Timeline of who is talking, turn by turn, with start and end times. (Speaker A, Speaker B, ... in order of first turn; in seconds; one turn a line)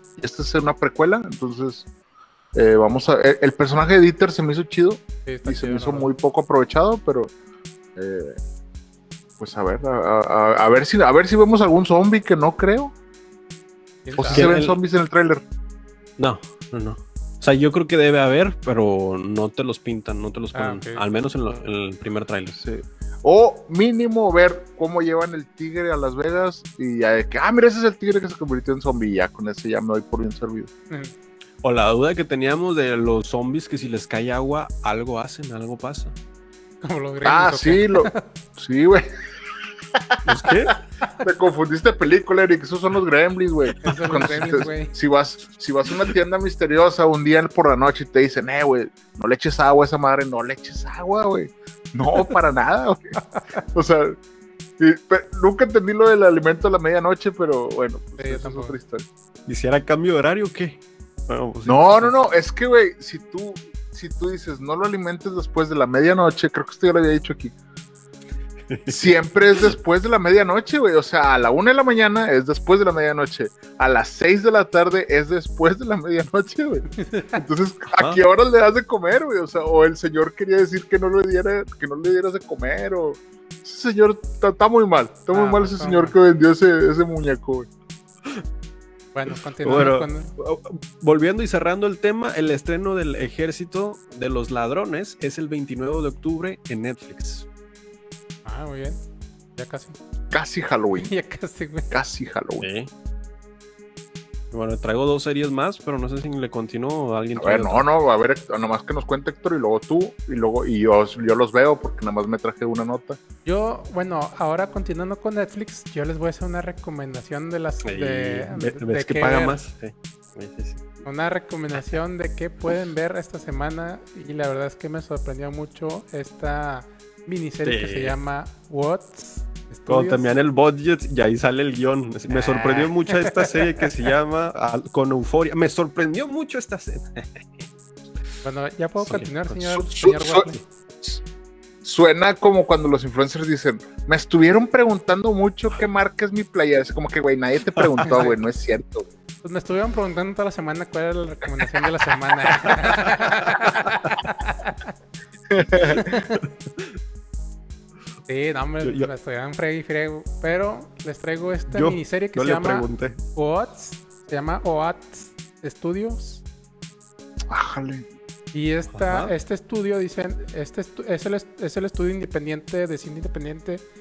Speaker A: 0.2-1.9
Speaker A: 2.5-7.3
Speaker B: 5.2-6.1
Speaker A: 8.0-8.4
Speaker A: 9.4-12.9
Speaker B: 14.0-14.5
Speaker A: 14.2-15.4
Speaker C: 14.3-14.8
Speaker C: 16.2-22.6
Speaker B: 20.5-21.0
Speaker A: 22.6-30.7
Speaker B: 30.9-31.1
Speaker C: 31.6-36.1
Speaker B: 36.8-38.2
Speaker A: 37.2-39.1
Speaker A: 39.9-40.7
Speaker C: 40.2-40.8
Speaker A: 41.2-53.1
Speaker B: 43.8-44.9
Speaker B: 53.3-53.6
Speaker A: 53.7-54.2
Speaker A: 54.8-59.0
Speaker B: 58.2-58.8
Speaker C: 59.5-62.1
Speaker A: 61.6-67.5
Speaker C: 68.7-69.1
Speaker A: 68.9-87.7
Speaker B: 77.0-77.4
Speaker C: 77.9-78.2
Speaker B: 85.3-86.2
Speaker B: 89.1-90.3
Speaker C: 89.6-97.5
Speaker B: 98.4-99.0
Speaker B: 99.6-100.0
Speaker A: 100.3-101.1
Speaker B: 101.0-101.9
Speaker A: 101.9-102.7
Speaker C: 102.6-102.9
Speaker C: 104.5-107.8
Speaker A: 107.3-113.2
Speaker B: 113.4-119.6
Speaker C: 117.8-120.9
Speaker B: 121.0-130.3
Speaker C: 127.6-128.2
Speaker C: 129.9-137.6
Speaker A: 132.5-132.8
Speaker B: 132.7-133.5
Speaker B: 138.4-140.6
Speaker C: 139.0-139.5
Speaker A: 139.6-141.2
Speaker A: 141.8-149.1
Speaker C: 147.8-148.1
Speaker B: 148.0-148.4
Speaker B: 149.4-154.9
Speaker A: 155.5-156.1
Speaker B: 155.8-156.4
Speaker B: 158.3-166.4
Speaker C: 158.8-159.1
Speaker C: 161.7-163.2
Speaker A: 167.5-168.1
Speaker B: 168.5-173.8
Speaker C: 168.9-169.3